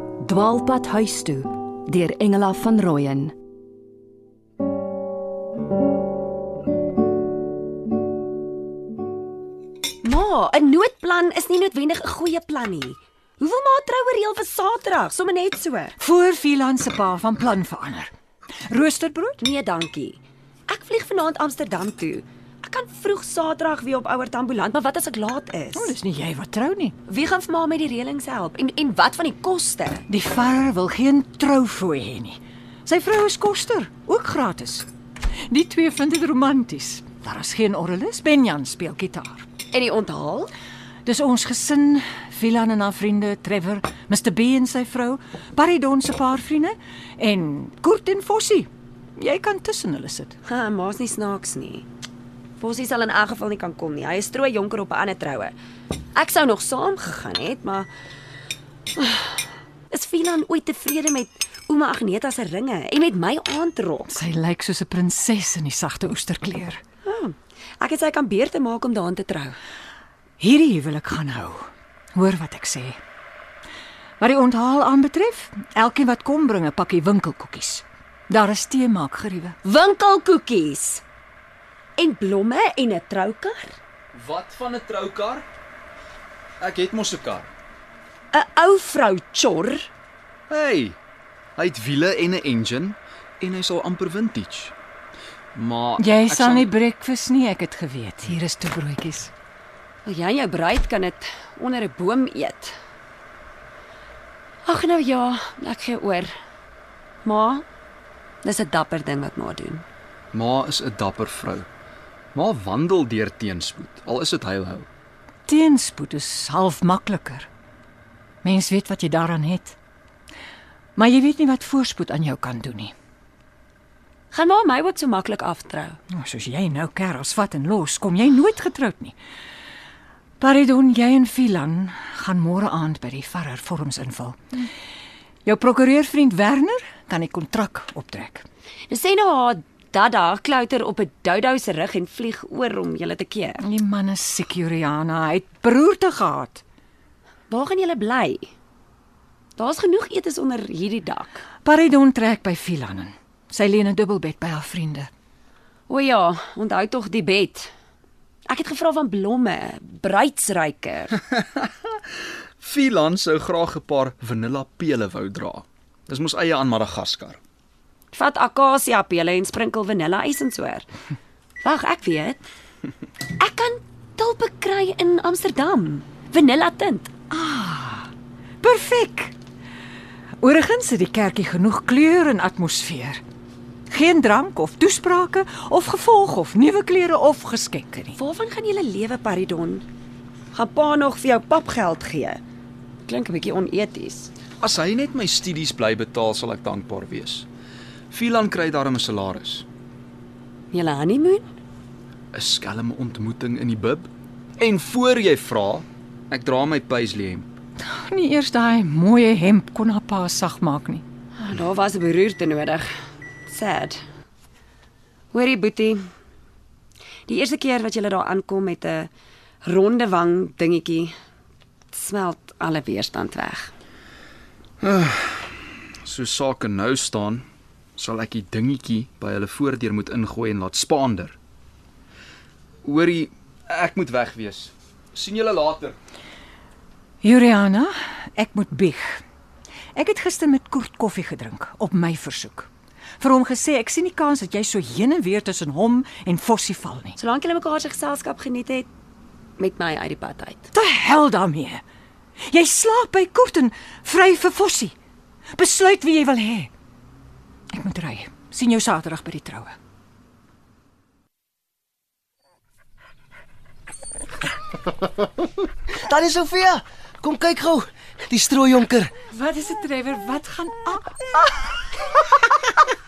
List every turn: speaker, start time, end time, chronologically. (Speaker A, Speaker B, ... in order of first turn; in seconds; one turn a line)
Speaker A: 0.2-3.3
Speaker B: 10.0-15.9
Speaker C: 16.0-18.1
Speaker C: 18.7-19.4
Speaker B: 19.4-25.9
Speaker C: 25.8-26.9
Speaker B: 27.1-30.0
Speaker C: 30.1-34.9
Speaker C: 35.5-39.5
Speaker B: 39.7-40.5
Speaker C: 41.0-50.4
Speaker B: 50.5-51.9
Speaker B: 52.6-55.5
Speaker B: 56.1-57.9
Speaker B: 59.0-64.1
Speaker C: 64.1-66.8
Speaker B: 67.0-69.6
Speaker C: 70.4-73.0
Speaker C: 74.2-79.5
Speaker B: 79.6-81.0
Speaker B: 82.0-83.8
Speaker D: 84.1-85.4
Speaker D: 86.6-87.5
Speaker B: 88.3-89.9
Speaker D: 90.5-91.0
Speaker D: 91.6-94.7
Speaker D: 95.5-96.7
Speaker C: 96.0-99.3
Speaker B: 100.0-102.7
Speaker B: 104.7-106.3
Speaker B: 107.2-107.6
Speaker B: 108.4-109.8
Speaker D: 110.3-111.7
Speaker D: 112.3-114.9
Speaker C: 115.5-117.5
Speaker C: 118.4-119.8
Speaker C: 121.0-122.9
Speaker B: 124.3-126.0
Speaker C: 126.1-129.1
Speaker C: 130.4-134.4
Speaker C: 135.4-138.4
Speaker B: 138.9-143.6
Speaker C: 143.6-146.6
Speaker B: 147.5-148.5
Speaker B: 149.6-151.4
Speaker C: 151.6-155.1
Speaker B: 155.9-157.7
Speaker B: 158.5-161.2
Speaker D: 161.3-161.9
Speaker D: 162.6-167.4
Speaker B: 168.1-170.8
Speaker B: 171.6-172.4
Speaker B: 173.4-177.1
Speaker C: 177.3-178.1
Speaker C: 178.6-179.3
Speaker C: 180.4-183.2
Speaker C: 183.9-188.2
Speaker B: 188.2-189.8
Speaker B: 190.5-192.4
Speaker B: 193.1-194.3
Speaker D: 194.6-197.5
Speaker D: 198.1-199.6
Speaker B: 200.7-201.5
Speaker D: 202.3-207.5
Speaker C: 207.8-211.0
Speaker B: 211.4-212.9
Speaker B: 213.5-214.0
Speaker B: 215.3-216.0
Speaker B: 217.3-219.1
Speaker B: 219.6-221.1
Speaker B: 221.9-223.7
Speaker D: 224.8-227.4
Speaker D: 228.0-231.3
Speaker D: 232.8-235.9
Speaker C: 237.2-239.2
Speaker C: 239.9-242.7
Speaker C: 243.2-247.2
Speaker B: 247.2-248.9
Speaker B: 249.6-250.7
Speaker C: 250.7-251.8
Speaker C: 252.5-254.9
Speaker C: 255.5-256.7
Speaker C: 257.7-259.8
Speaker E: 265.9-269.1
Speaker C: 269.3-271.4